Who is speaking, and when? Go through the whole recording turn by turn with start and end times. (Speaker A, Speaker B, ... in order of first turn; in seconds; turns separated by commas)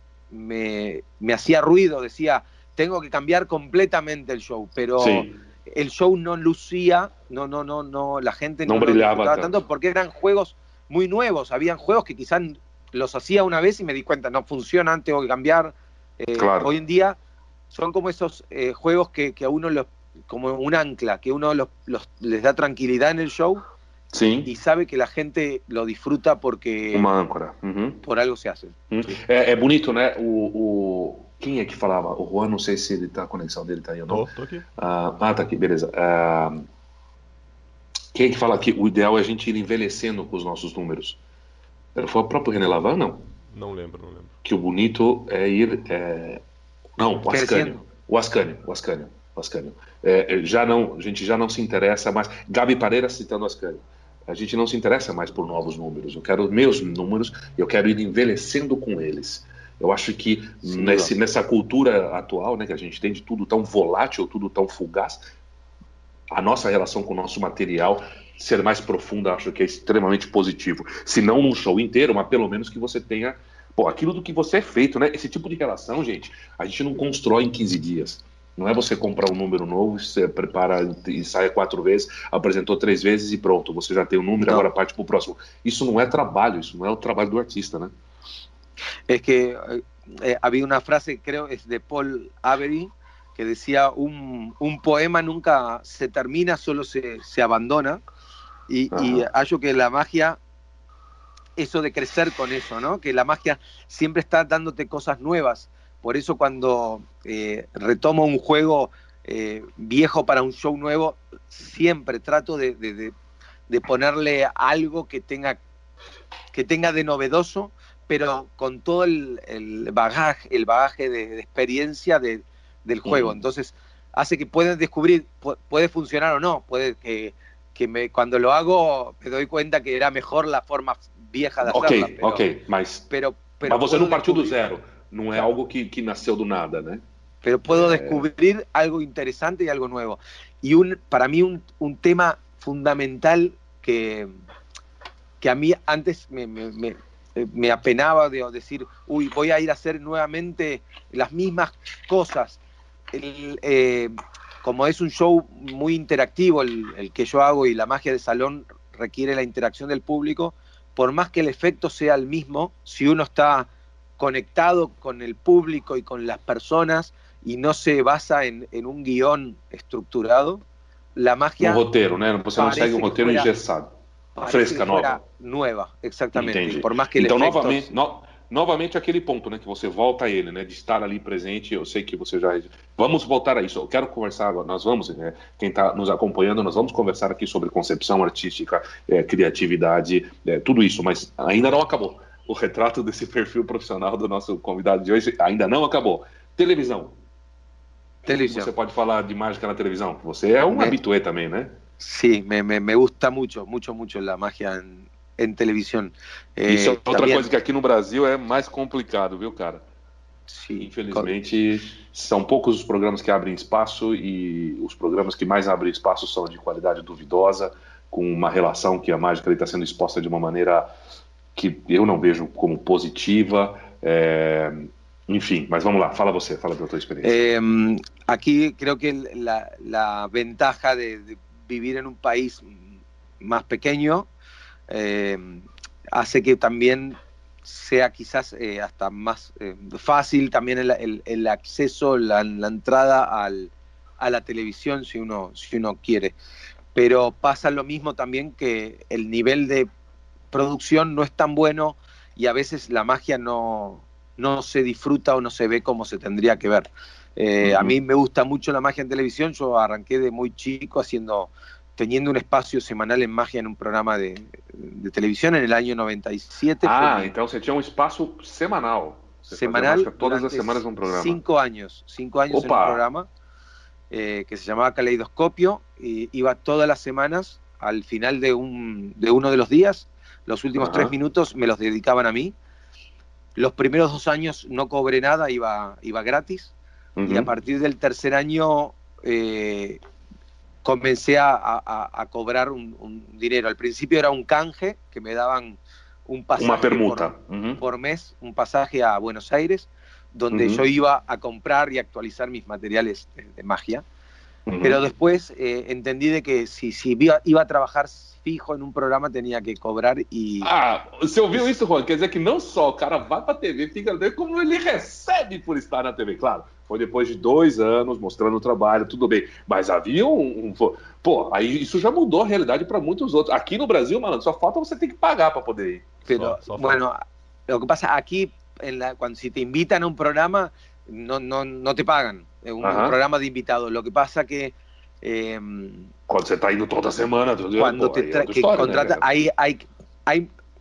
Speaker A: 0.3-17.2, Speaker B: 5.0-5.3, Speaker B: 8.7-9.6, Speaker B: 16.4-16.7, Speaker A: 17.7-23.6, Speaker B: 24.1-24.5, Speaker A: 24.5-27.1, Speaker B: 26.9-28.0, Speaker A: 28.0-28.8, Speaker B: 28.9-34.3, Speaker C: 34.1-34.7, Speaker B: 34.8-36.6, Speaker B: 38.1-41.2, Speaker B: 42.0-43.3, Speaker C: 43.5-44.3, Speaker B: 44.4-46.4, Speaker B: 47.0-65.2, Speaker A: 47.3-47.8, Speaker A: 60.6-61.1, Speaker B: 66.3-87.9, Speaker A: 84.4-84.7, Speaker A: 89.1-98.0, Speaker A: 98.7-100.4, Speaker B: 98.9-99.3, Speaker A: 101.6-113.2, Speaker A: 113.7-115.6, Speaker A: 116.5-132.4, Speaker B: 123.1-123.4, Speaker B: 131.6-133.1, Speaker A: 133.1-134.6, Speaker B: 133.7-137.0, Speaker A: 137.4-144.3, Speaker B: 137.7-138.3, Speaker A: 145.4-152.6, Speaker A: 153.1-170.6, Speaker A: 171.2-171.8, Speaker B: 171.6-173.9, Speaker A: 172.5-173.5, Speaker A: 174.4-177.9, Speaker B: 174.5-175.2, Speaker B: 176.3-197.2, Speaker A: 198.3-198.7, Speaker B: 198.3-201.8, Speaker A: 200.7-201.0, Speaker A: 202.0-207.4, Speaker B: 206.7-209.8, Speaker A: 210.5-211.3, Speaker B: 210.8-220.9, Speaker B: 221.6-227.4, Speaker A: 227.2-232.9, Speaker A: 233.4-234.3, Speaker A: 234.9-246.3, Speaker A: 246.9-249.9, Speaker A: 250.5-267.3, Speaker B: 257.6-257.9, Speaker B: 266.8-271.4, Speaker A: 269.5-273.3, Speaker B: 272.5-273.0, Speaker A: 274.1-282.6, Speaker B: 280.8-281.1, Speaker A: 283.6-286.7, Speaker B: 287.2-287.5, Speaker A: 287.3-290.0, Speaker A: 290.8-304.0, Speaker B: 296.6-297.8, Speaker B: 300.5-300.8, Speaker B: 304.7-305.0, Speaker A: 304.8-310.7, Speaker B: 310.6-326.1, Speaker A: 326.3-336.1, Speaker C: 326.3-327.0, Speaker B: 332.8-333.2, Speaker B: 336.3-339.3, Speaker A: 337.8-340.5